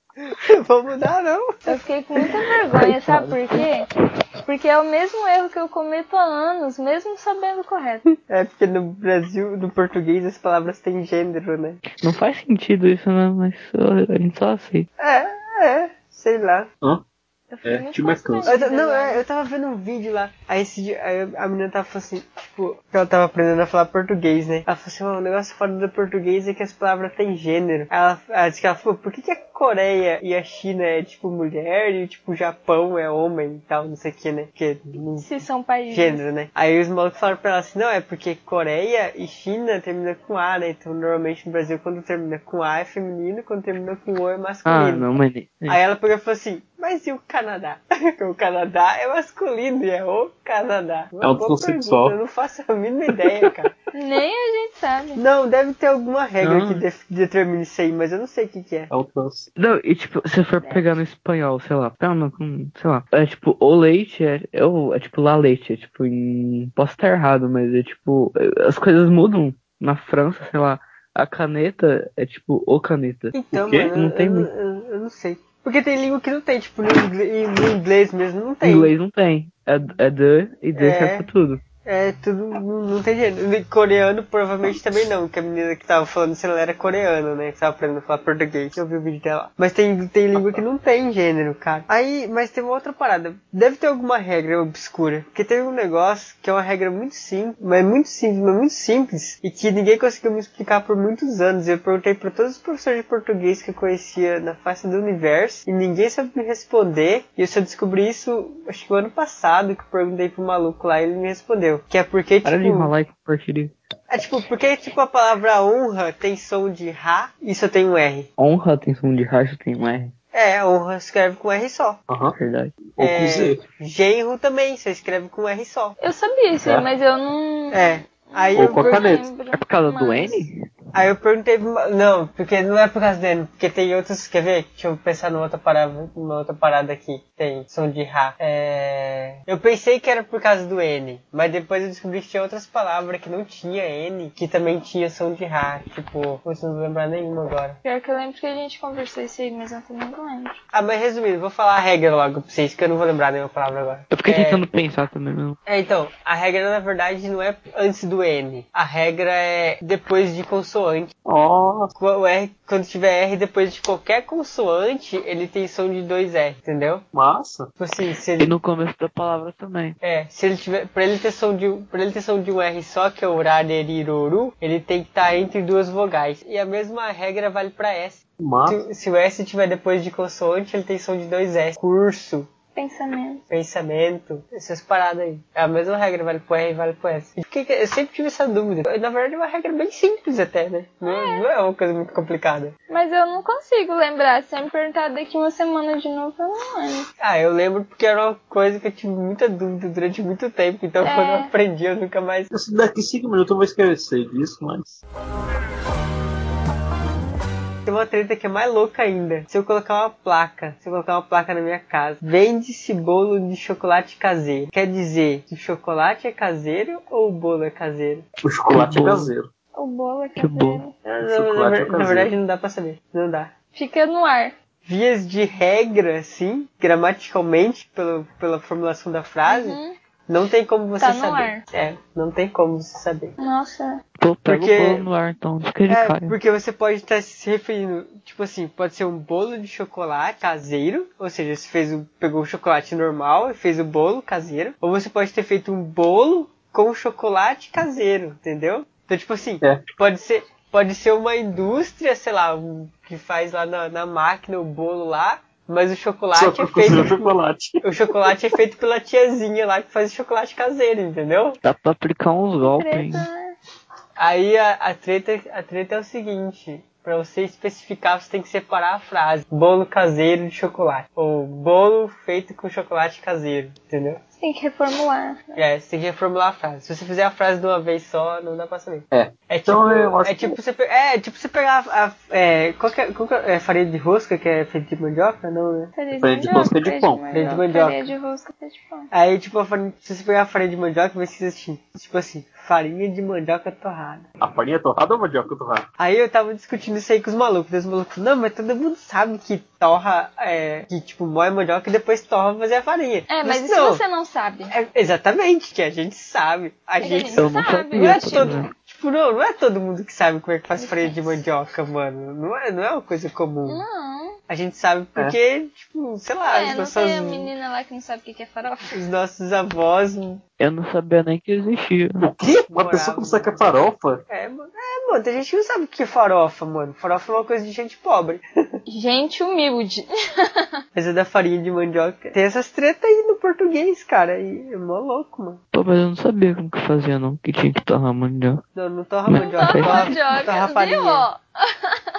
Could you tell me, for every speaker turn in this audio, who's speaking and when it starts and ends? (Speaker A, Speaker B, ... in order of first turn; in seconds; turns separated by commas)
Speaker A: 0.2-1.8, Speaker B: 1.7-3.9, Speaker C: 2.7-3.7, Speaker B: 4.5-8.1, Speaker A: 8.2-11.8, Speaker C: 11.9-14.9, Speaker A: 15.0-16.7, Speaker B: 17.5-19.2, Speaker D: 17.6-18.5, Speaker A: 18.5-45.1, Speaker B: 35.2-36.2, Speaker C: 44.7-45.8, Speaker A: 45.7-53.7, Speaker D: 51.2-52.2, Speaker B: 53.9-55.2, Speaker A: 55.2-58.9, Speaker C: 56.4-56.8, Speaker D: 58.9-59.5, Speaker C: 59.6-73.4, Speaker B: 60.6-61.0, Speaker A: 73.3-78.9, Speaker D: 73.5-73.9, Speaker C: 73.9-74.5, Speaker C: 78.6-81.6, Speaker A: 80.8-81.3, Speaker A: 81.8-112.9, Speaker C: 112.4-113.7, Speaker A: 114.1-118.3, Speaker C: 118.4-120.1, Speaker A: 120.3-122.0, Speaker D: 122.1-122.4, Speaker C: 122.3-122.7, Speaker D: 122.9-123.6, Speaker A: 123.0-126.0, Speaker B: 126.0-130.4, Speaker A: 127.7-129.2, Speaker D: 128.6-129.3, Speaker C: 129.5-130.6, Speaker A: 130.9-147.8, Speaker B: 147.8-150.6, Speaker A: 150.7-154.6, Speaker C: 154.1-155.6, Speaker A: 155.7-161.1, Speaker D: 161.3-161.9, Speaker A: 162.0-167.0, Speaker D: 167.1-167.7, Speaker A: 167.8-168.6, Speaker C: 168.4-170.0, Speaker A: 170.0-182.5, Speaker D: 178.4-178.8, Speaker B: 182.8-183.4, Speaker A: 183.5-192.8, Speaker B: 191.1-191.4, Speaker B: 192.9-197.1, Speaker A: 197.2-202.5, Speaker B: 201.0-201.5, Speaker D: 202.5-205.0, Speaker A: 207.9-218.2, Speaker D: 218.4-219.5, Speaker C: 218.7-219.3, Speaker B: 219.8-220.9, Speaker C: 220.4-220.8, Speaker A: 221.1-223.5, Speaker D: 221.2-222.3, Speaker B: 223.8-224.5, Speaker A: 224.8-233.4, Speaker B: 229.5-229.9, Speaker B: 231.0-231.6, Speaker B: 233.4-234.0, Speaker C: 234.2-236.4, Speaker A: 234.5-235.1, Speaker A: 235.9-257.3, Speaker D: 256.4-258.3, Speaker A: 257.8-261.6, Speaker C: 261.6-263.3, Speaker B: 262.6-263.5, Speaker A: 264.2-274.2, Speaker B: 274.4-275.6, Speaker A: 275.6-285.9, Speaker D: 279.1-280.6, Speaker B: 286.0-289.1, Speaker D: 286.1-287.2, Speaker A: 287.3-288.1, Speaker A: 289.1-294.3, Speaker D: 294.4-295.9, Speaker A: 296.0-304.0, Speaker B: 303.3-304.7, Speaker A: 304.7-313.8, Speaker B: 307.0-308.7, Speaker C: 307.3-308.7, Speaker B: 310.8-311.4, Speaker B: 313.7-314.4, Speaker A: 314.5-317.5, Speaker B: 316.4-319.0, Speaker A: 318.9-320.4, Speaker C: 320.6-322.3, Speaker D: 322.2-324.2, Speaker A: 322.7-323.5, Speaker A: 324.3-328.4, Speaker B: 328.9-330.8, Speaker A: 330.9-335.6, Speaker C: 335.7-338.6, Speaker A: 338.8-341.3, Speaker C: 339.3-340.2, Speaker B: 339.3-342.1